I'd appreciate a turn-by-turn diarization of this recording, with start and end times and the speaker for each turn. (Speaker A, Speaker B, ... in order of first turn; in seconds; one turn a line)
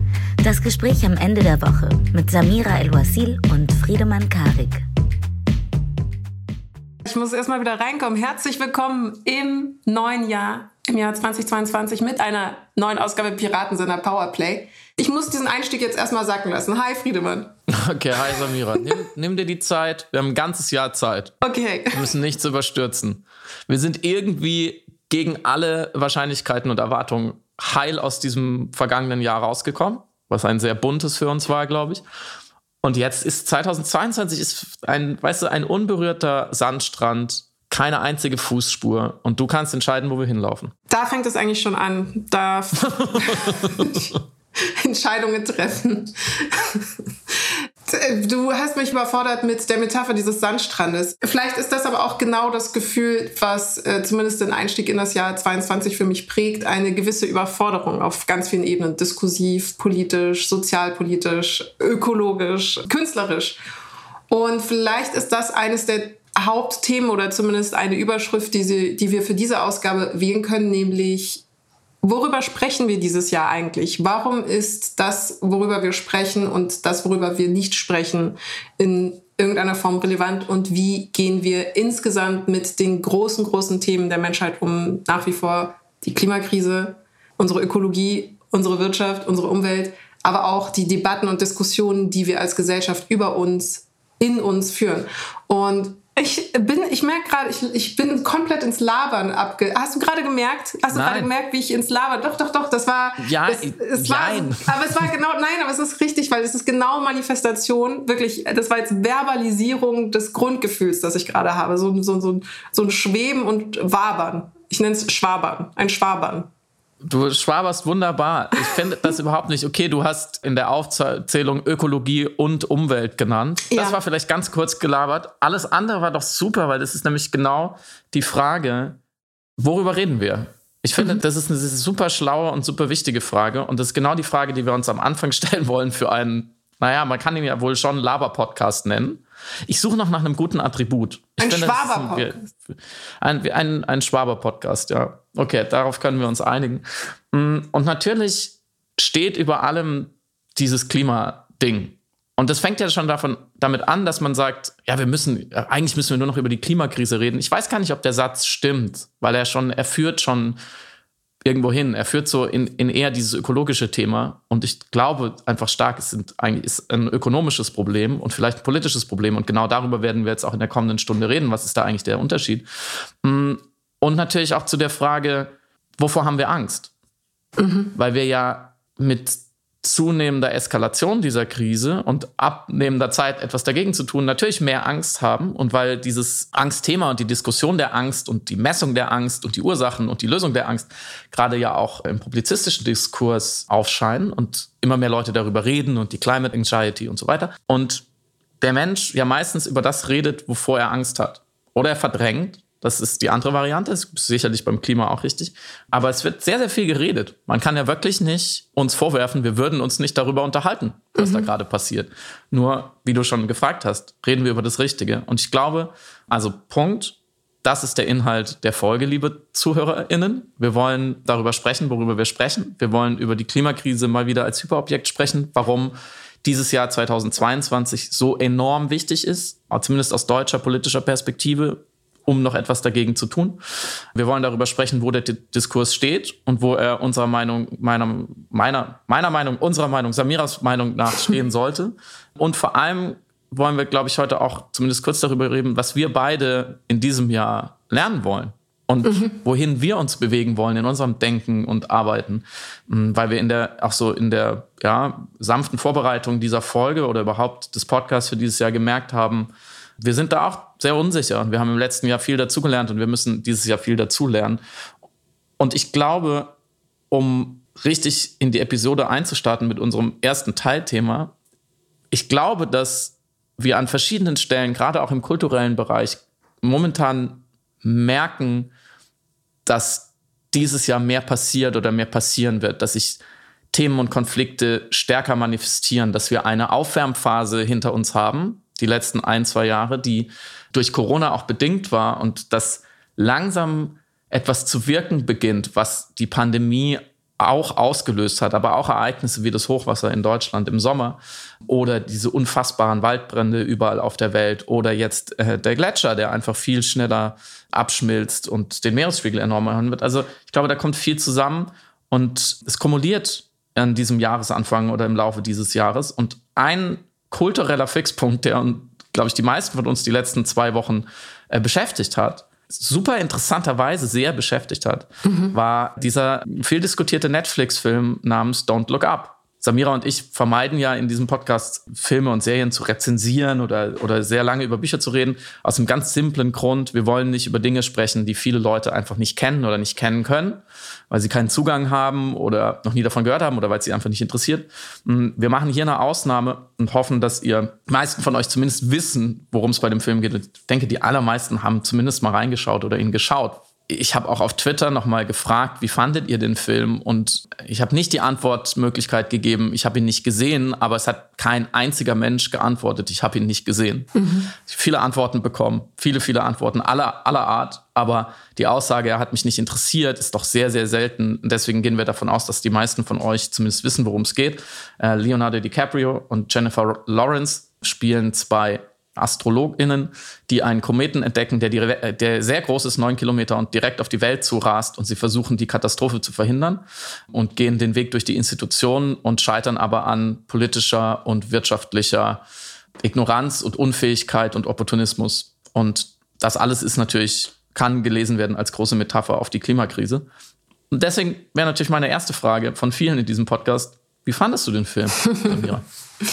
Speaker A: 0.4-4.8
Speaker B: 7.0-17.5
Speaker C: 17.7-21.3
Speaker B: 21.4-22.1
Speaker C: 21.9-32.0
Speaker C: 32.8-40.7
Speaker B: 40.9-46.9
Speaker C: 42.9-44.1
Speaker B: 47.9-63.6
Speaker B: 64.3-71.4
Speaker B: 72.0-116.5
Speaker C: 100.9-101.3
Speaker C: 103.2-105.1
Speaker C: 117.0-129.0
Speaker B: 123.7-124.0
Speaker C: 129.6-142.6
Speaker B: 141.4-142.4
Speaker C: 143.2-160.6
Speaker C: 161.4-172.7
Speaker C: 173.2-176.9
Speaker B: 177.6-177.9
Speaker C: 177.9-198.0
Speaker C: 198.6-233.6
Speaker B: 211.2-211.5
Speaker C: 234.1-264.6
Speaker B: 249.0-249.3
Speaker C: 265.6-266.6
Speaker C: 267.1-271.3
Speaker C: 272.1-278.7
Speaker C: 279.6-283.2
Speaker C: 283.7-392.4
Speaker B: 325.2-325.5
Speaker B: 364.1-364.5
Speaker C: 393.0-400.3
Speaker C: 400.9-405.8
Speaker B: 405.2-405.6